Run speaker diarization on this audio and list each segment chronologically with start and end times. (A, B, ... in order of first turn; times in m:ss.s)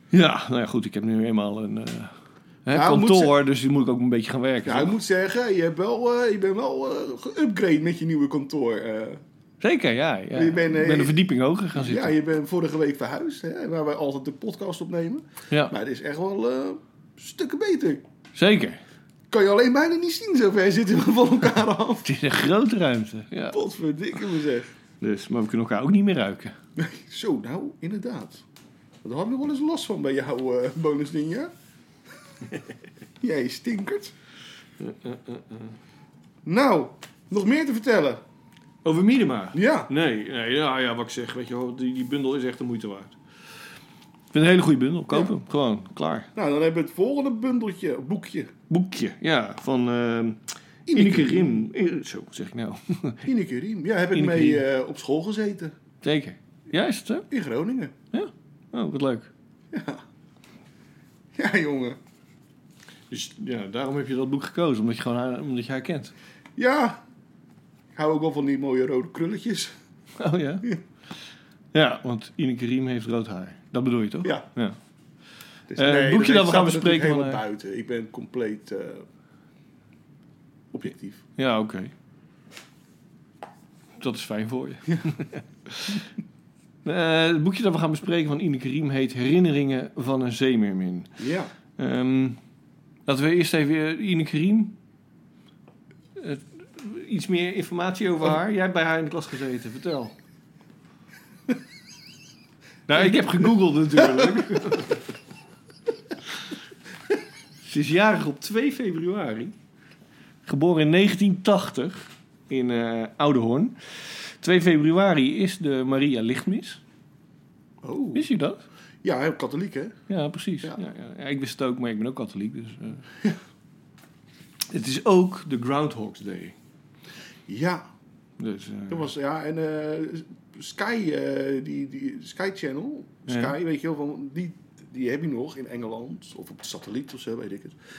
0:00.1-0:04.9 A
0:02.7-0:03.3 B
0:04.6-0:09.2 B
0:09.6-0:12.2 A
0:10.3-0:11.2 B
0:11.7-0:18.0 B
0:18.3-0:18.8 A
0:19.3-0:22.1 B
0:22.0-0:23.6 A
0:23.5-0:24.7 B
0:25.0-0:26.5 A
0:26.8-0:28.4 B
0:29.0-0:31.5 B
0:33.2-0:34.1 B
0:34.8-0:35.8 A
0:36.4-0:38.2 B
0:38.8-0:43.2 A
0:39.5-0:39.9 B
0:44.3-0:46.3 A
0:46.3-0:48.5 B
0:48.7-0:53.3 A
0:50.9-0:51.5 B
0:53.2-0:55.7 B
0:54.1-0:54.6 A
0:56.0-0:57.3 A
0:57.3-0:57.9 B
0:58.1-0:59.3 A
0:59.7-1:00.0 B
1:01.3-1:02.0 B
1:03.1-1:06.1 A
1:06.6-1:07.0 B
1:07.9-1:09.7 B
1:10.2-1:10.7 A
1:11.7-1:14.8 A
1:15.7-1:19.0 B
1:15.8-1:17.4 A
1:20.7-1:21.2 B
1:21.4-1:21.9 A
1:24.0-1:26.1 A
1:26.8-1:31.2 A
1:31.2-1:31.5 B
1:31.8-1:32.4 A
1:33.0-1:34.8 A
1:36.2-1:40.1 A
1:42.9-1:45.0 A
1:43.0-1:43.4 B
1:44.0-1:44.8 B
1:47.6-1:49.5 A
1:50.4-1:56.8 A
1:57.8-1:58.2 B
1:58.1-1:58.6 A
1:59.0-2:00.0 B
2:00.1-2:03.0 A
2:04.7-2:06.6 A
2:07.5-2:07.8 B
2:08.4-2:09.1 A
2:08.9-2:17.8 B
2:13.3-2:13.5 A